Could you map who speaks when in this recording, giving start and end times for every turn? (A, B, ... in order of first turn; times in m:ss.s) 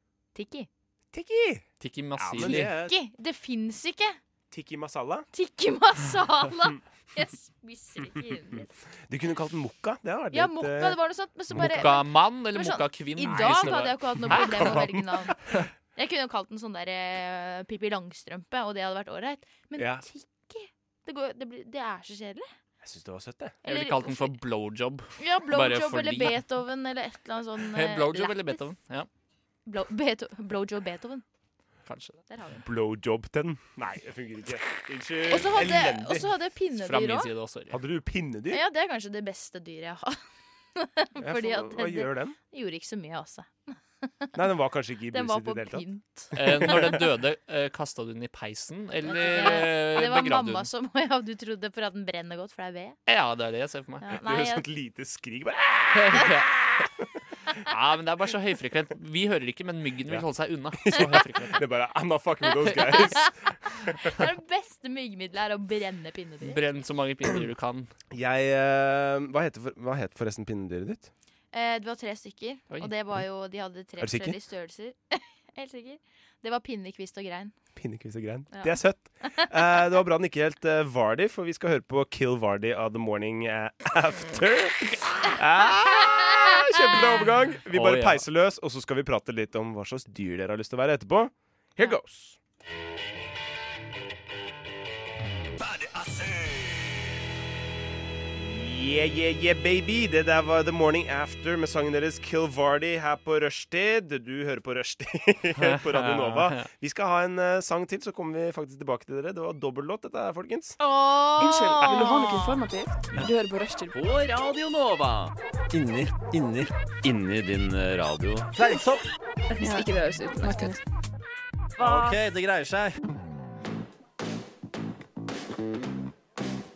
0:00.3-0:00.7 A
0:01.1-0:01.6 B
0:01.8-0:02.8 C
0:02.2-0:03.0 B
0:02.4-0:04.2 A
0:04.5-0:05.3 B
0:05.3-0:08.7 A
0:09.1-0:11.0 B
0:10.3-0:15.4 A
0:11.5-0:11.9 B
0:11.5-0:14.9 C
0:13.3-0:15.5 B
0:15.9-0:22.5 A
0:19.8-0:20.0 B
0:22.8-0:23.6 B
0:23.6-0:24.3 A
0:23.6-0:26.4 C
0:25.2-0:28.6 A
0:27.7-0:29.1 C
0:29.6-0:31.2 A
0:31.8-0:32.2 C
0:32.3-0:32.6 A
0:32.6-0:36.3 B
0:35.2-0:37.3 A
0:36.8-0:37.8 C
0:37.7-0:38.6 B
0:38.5-0:40.2 A
0:40.7-0:44.3 A
0:41.2-0:42.4 B
0:44.3-0:46.9 B
0:45.1-0:47.0 A
0:46.3-0:50.7 C
0:49.0-0:53.0 A
0:53.1-0:54.0 C
0:54.0-0:54.6 A
0:54.1-0:56.9 B
0:55.9-0:56.5 C
0:57.6-1:01.6 C
1:00.8-1:04.2 B
1:02.6-1:06.6 A
1:06.4-1:07.9 C
1:08.1-1:11.1 B
1:11.5-1:17.5 A
1:14.0-1:14.3 B
1:17.8-1:32.4 B
1:18.5-1:19.5 A
1:26.1-1:26.9 A
1:27.7-1:28.2 C
1:35.6-1:37.0 B
1:38.3-1:50.8 B
1:45.6-1:46.7 C
1:50.8-1:52.6 A
1:51.4-1:54.0 D
1:53.9-1:59.1 E
1:59.6-2:00.8 D
2:01.8-2:03.0 E
2:01.9-2:02.1 D